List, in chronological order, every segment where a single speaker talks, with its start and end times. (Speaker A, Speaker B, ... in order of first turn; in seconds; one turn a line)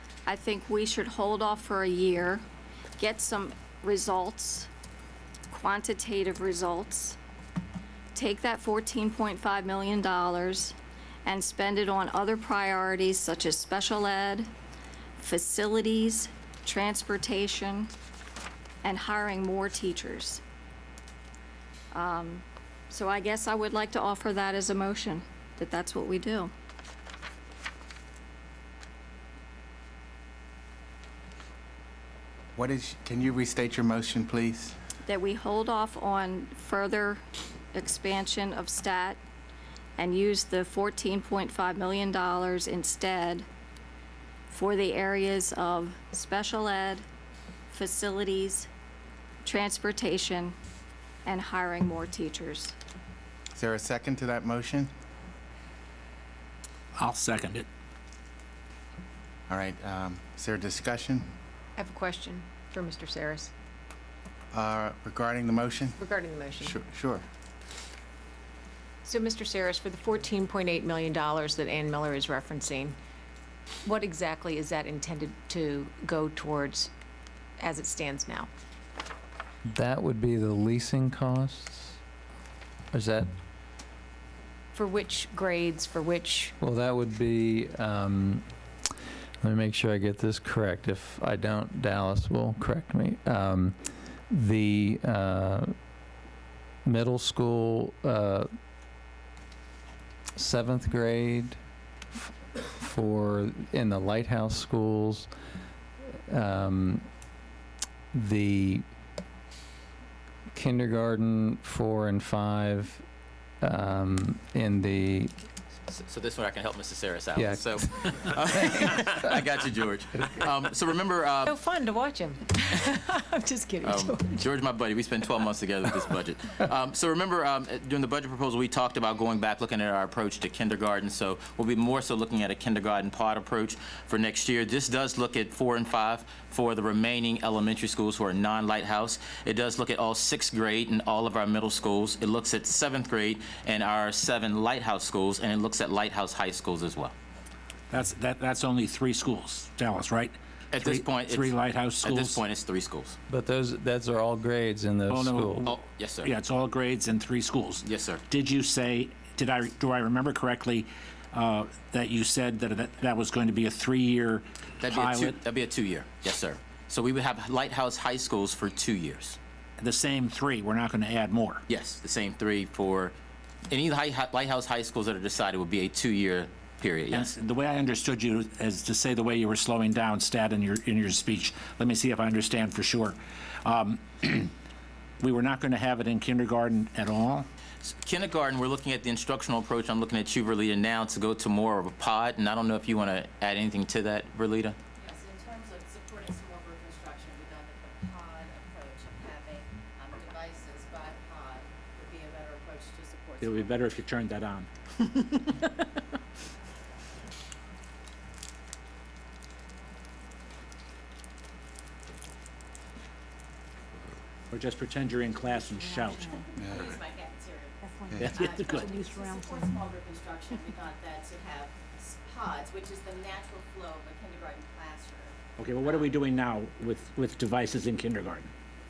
Speaker A: 0.3-2.4
Speaker A: 3.0-4.7
Speaker A: 5.5-7.2
Speaker A: 8.2-14.5
Speaker A: 15.2-17.9
Speaker A: 18.8-20.4
Speaker A: 21.9-26.5
Speaker B: 32.5-34.8
Speaker A: 35.1-37.2
Speaker A: 37.7-39.2
Speaker A: 40.0-43.5
Speaker A: 44.5-47.0
Speaker A: 47.7-48.7
Speaker A: 49.5-50.5
Speaker A: 51.2-52.8
Speaker B: 53.5-54.9
Speaker C: 57.0-57.7
Speaker B: 59.5-61.3
Speaker D: 61.8-63.5
Speaker B: 64.5-66.0
Speaker D: 66.0-66.8
Speaker B: 66.6-67.2
Speaker D: 69.0-73.0
Speaker D: 73.8-76.9
Speaker D: 77.6-78.5
Speaker E: 79.7-82.0
Speaker E: 82.9-83.3
Speaker D: 84.7-86.5
Speaker E: 86.6-88.4
Speaker E: 89.4-93.8
Speaker E: 94.3-95.7
Speaker E: 96.8-98.5
Speaker E: 100.4-101.6
Speaker E: 102.8-105.3
Speaker E: 106.3-107.0
Speaker E: 108.1-108.8
Speaker E: 110.5-113.0
Speaker E: 113.6-115.3
Speaker F: 115.9-121.5
Speaker E: 117.4-117.8
Speaker D: 121.5-124.4
Speaker F: 123.8-147.1
Speaker C: 147.9-152.4
Speaker F: 150.7-153.2
Speaker E: 153.3-155.7
Speaker C: 155.1-165.4
Speaker F: 155.7-156.3
Speaker F: 157.8-158.2
Speaker F: 164.8-169.4
Speaker C: 169.8-171.7
Speaker F: 171.7-173.2
Speaker F: 173.7-177.3
Speaker C: 177.1-184.5
Speaker C: 185.2-187.5
Speaker F: 187.8-194.8
Speaker G: 195.0-203.9
Speaker C: 203.4-205.4
Speaker C: 214.5-216.4
Speaker G: 216.4-226.1
Speaker B: 216.6-216.9
Speaker C: 218.2-219.0
Speaker C: 225.6-228.5